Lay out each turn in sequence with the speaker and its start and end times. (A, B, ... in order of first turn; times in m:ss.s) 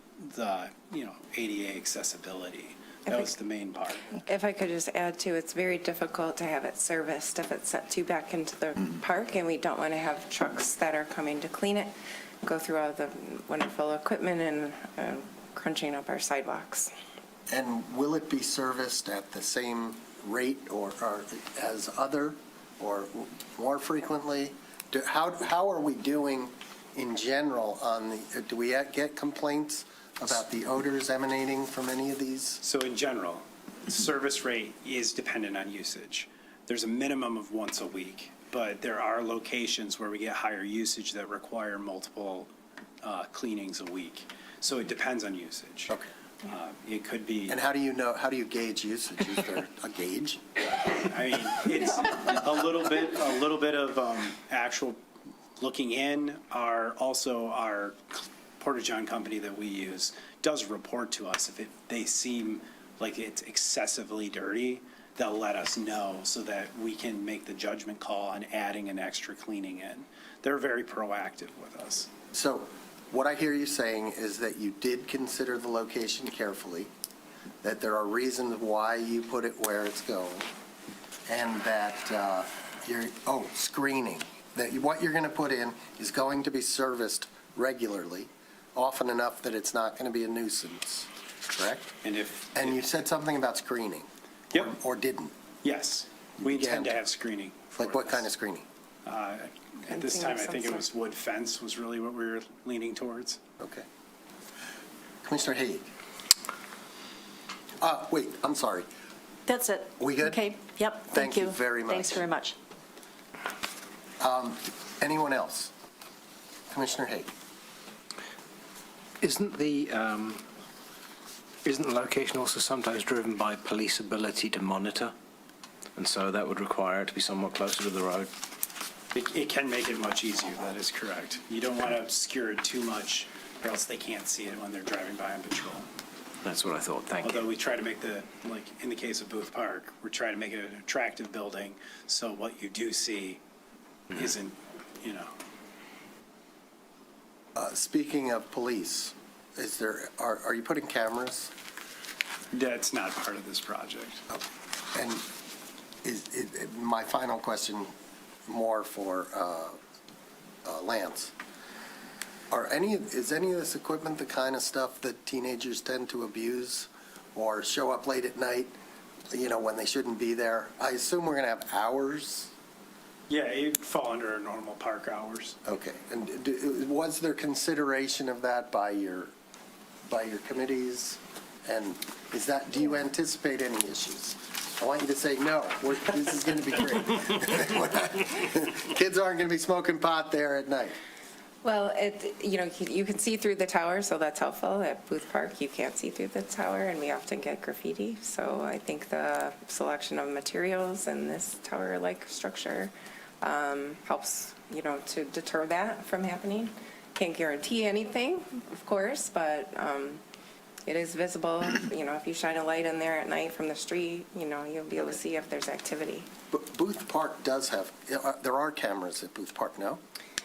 0:00.2-0:04.2 A
0:03.1-0:03.3 B
0:04.1-0:11.9 B
0:12.4-0:16.9 B
0:17.5-0:32.6 C
0:32.6-0:42.5 A
0:43.0-0:47.6 A
0:47.5-0:50.4 C
0:50.9-0:55.0 A
0:55.6-1:12.1 A
1:12.3-1:16.9 C
1:17.6-1:20.5 C
1:21.3-1:31.9 C
1:32.0-1:32.8 A
1:32.5-1:35.3 C
1:35.6-1:38.3 A
1:36.4-1:37.0 C
1:37.8-1:38.7 C
1:39.0-1:43.4 A
1:39.9-1:40.8 B
1:43.6-1:43.8 C
1:45.2-1:45.8 C
1:47.8-1:48.9 C
1:49.5-1:52.6 D
1:50.0-1:50.4 C
1:51.1-1:52.3 C
1:54.2-1:55.7 C
1:56.7-1:57.3 C
1:59.2-2:00.4 E
2:01.6-2:05.1 E
2:06.0-2:08.3 E
2:09.1-2:15.9 A
2:16.4-2:17.4 E
2:17.2-2:23.4 A
2:24.1-2:25.3 A
2:27.6-2:31.5 C
2:32.5-2:34.2 A
2:34.9-2:35.2 C
2:36.0-2:37.9 C
2:38.5-2:39.8 C
2:40.6-2:41.3 C
2:42.5-2:48.8 C
2:49.3-2:52.5 C
2:53.3-2:55.6 A
2:55.6-2:59.3 C
3:00.1-3:11.0 C
3:11.6-3:30.2 B
3:30.9-3:36.3 B
3:36.5-3:40.0 C